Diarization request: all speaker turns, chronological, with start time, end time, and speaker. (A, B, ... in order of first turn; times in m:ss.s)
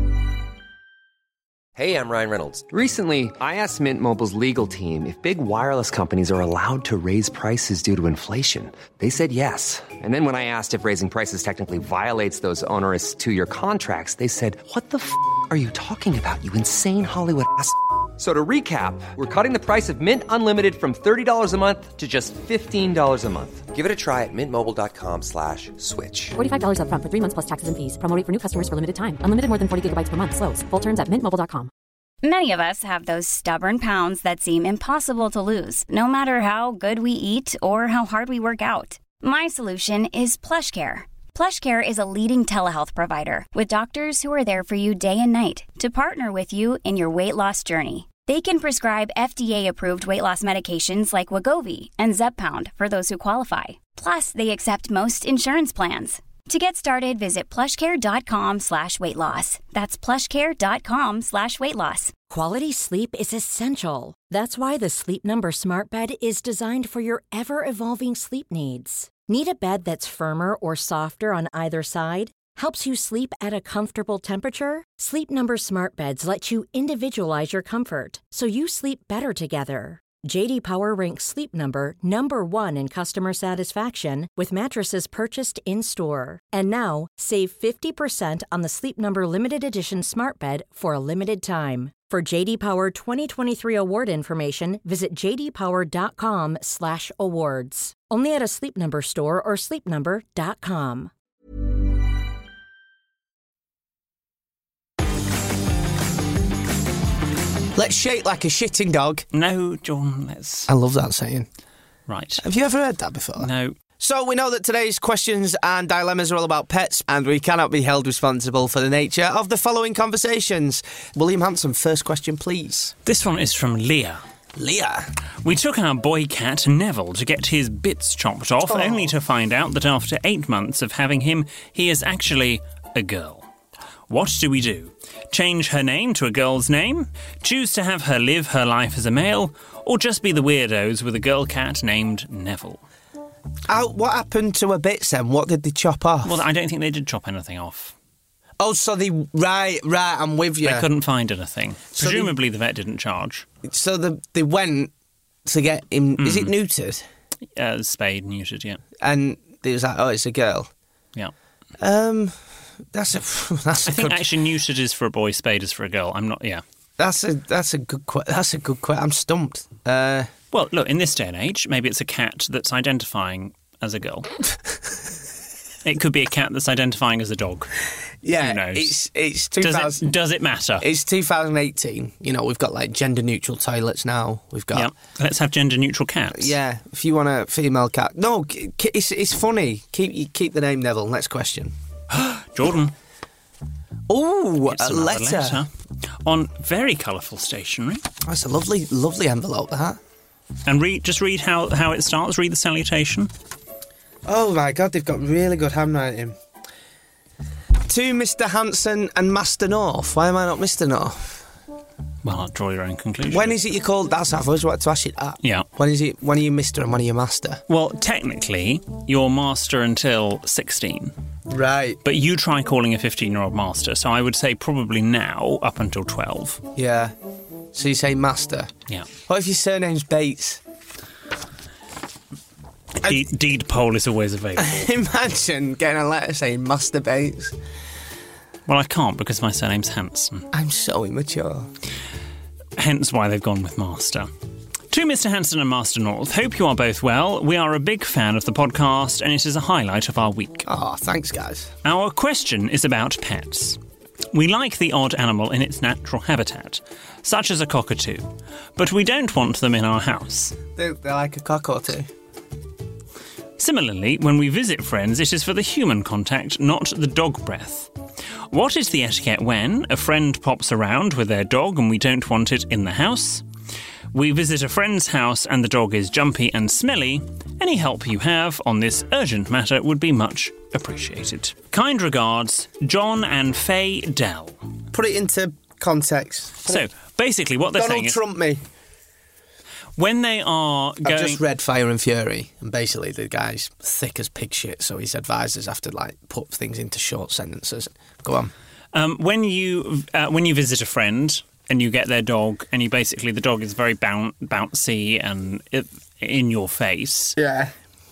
0:01.7-0:26.4 A
0:26.4-0:31.7 B
0:32.2-1:02.1 C
1:02.3-1:41.1 D
1:47.7-1:49.2 E
1:49.3-1:50.7 F
1:50.7-1:51.5 E
1:52.1-1:52.4 F
1:52.4-2:02.9 E
1:53.4-1:53.8 F
2:03.0-2:04.2 F
2:04.6-2:05.1 E
2:05.4-2:13.5 F
2:08.6-2:09.1 E
2:14.1-2:22.8 F
2:23.7-2:26.4 E
2:26.2-2:27.9 F
2:28.6-2:30.9 E
2:30.6-2:33.4 F
2:31.9-2:32.3 E
2:33.6-2:34.9 E
2:35.4-2:37.0 E
2:36.2-2:36.5 F
2:37.6-2:38.8 F
2:39.0-2:40.7 E
2:41.8-2:42.4 E
2:42.9-2:44.3 E
2:43.8-2:46.6 F
2:47.0-2:50.3 E
2:50.5-2:54.3 F
2:55.8-2:57.7 F
2:58.2-3:00.1 E
2:58.4-2:59.0 F
2:59.6-3:00.8 F
3:00.8-3:04.9 E
3:04.7-3:06.5 F
3:06.3-3:11.7 E
3:12.1-3:12.9 F
3:14.1-3:15.6 E
3:14.7-3:15.7 F
3:16.2-3:18.0 F
3:18.2-3:20.0 E
3:20.6-3:23.3 F
3:24.2-3:26.4 E
3:27.8-3:31.4 E
3:32.2-3:33.6 F
3:33.3-3:37.6 E
3:35.4-3:35.7 F
3:37.7-3:41.1 F
3:41.5-3:42.0 E
3:42.0-3:46.6 F
3:46.7-3:47.1 E
3:47.7-3:48.7 E
3:49.3-3:50.6 E
3:53.0-3:54.9 F
3:54.6-3:57.6 E
3:58.7-4:00.5 F
4:00.5-4:01.7 E
4:02.8-4:04.3 F
4:04.9-4:10.6 F
4:10.6-4:11.7 E
4:11.8-4:13.8 F
4:14.3-4:20.6 F
4:20.7-4:22.1 E
4:23.6-4:27.9 F
4:28.5-4:33.4 F
4:34.1-4:44.6 F
4:44.9-4:46.9 E
4:46.6-4:48.2 F
4:47.7-4:48.6 E
4:50.0-4:51.4 F
4:51.0-4:58.5 E
4:58.9-5:07.4 F
5:07.4-5:07.7 E